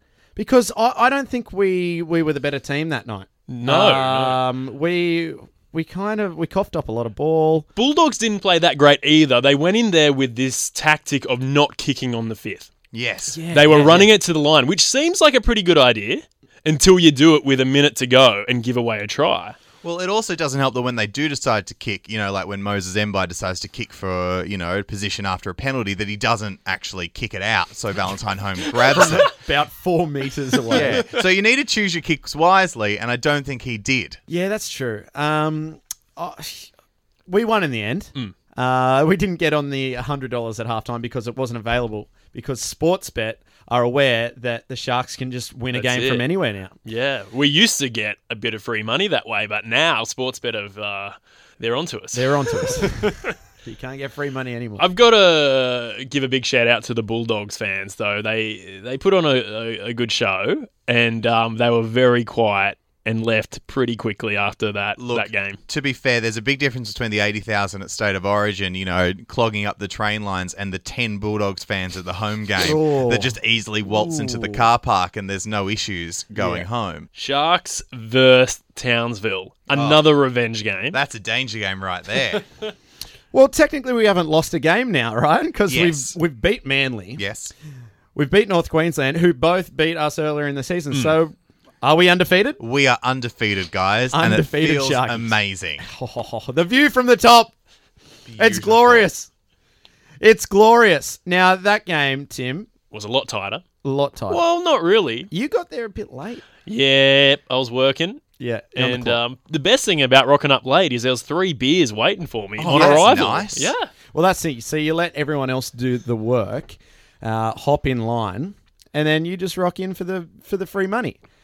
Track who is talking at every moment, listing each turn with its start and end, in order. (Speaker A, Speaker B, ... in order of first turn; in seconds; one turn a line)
Speaker A: 0.4-7.7
Speaker B: 3.5-4.4
Speaker B: 7.8-12.7
Speaker C: 12.9-13.4
Speaker A: 13.3-14.1
Speaker B: 13.5-19.6
Speaker C: 19.8-29.3
Speaker A: 28.8-31.1
Speaker C: 30.7-34.2
Speaker A: 34.3-36.7
Speaker A: 37.3-46.8
Speaker B: 45.7-46.3
Speaker B: 46.9-53.4
Speaker A: 52.1-54.9
Speaker B: 54.8-65.6
Speaker C: 65.0-77.1
Speaker A: 72.6-73.3
Speaker A: 73.8-74.7
Speaker A: 76.3-76.7
Speaker B: 77.2-81.0
Speaker C: 79.7-80.0
Speaker C: 80.9-82.4
Speaker A: 83.3-87.2
Speaker C: 85.7-86.2
Speaker C: 87.2-87.5
Speaker A: 88.2-92.6
Speaker C: 92.6-95.8
Speaker A: 94.1-97.5
Speaker C: 98.3-99.1
Speaker A: 98.4-99.3
Speaker A: 100.2-102.7
Speaker B: 102.9-103.6
Speaker A: 103.8-104.4
Speaker B: 104.3-105.3
Speaker A: 105.3-106.5
Speaker B: 106.7-108.2
Speaker A: 108.4-109.2
Speaker B: 108.8-113.9
Speaker C: 112.6-113.7
Speaker A: 112.7-113.4
Speaker A: 114.1-121.2